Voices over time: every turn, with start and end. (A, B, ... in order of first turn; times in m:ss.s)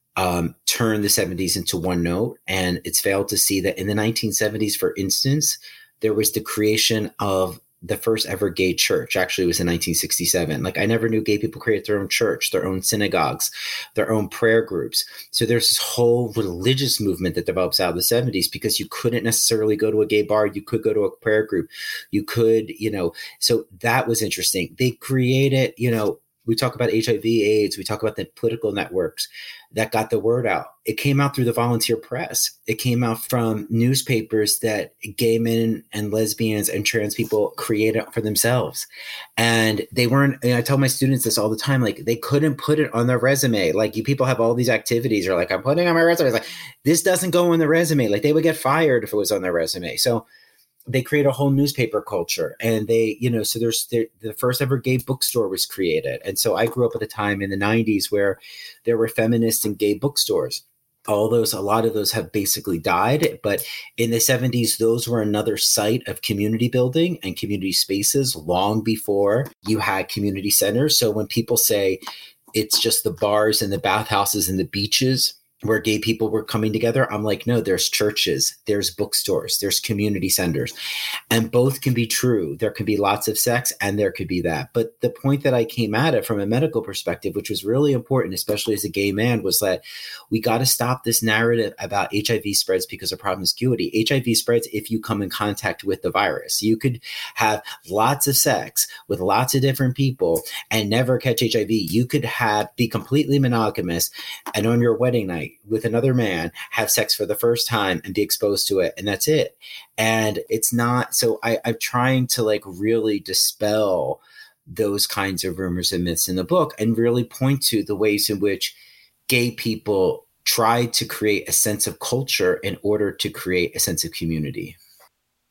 0:00.2-0:50.2 A
0:50.9-1:12.0 A
1:12.5-1:20.7 A
1:21.3-1:58.8 A
1:59.3-2:04.8 A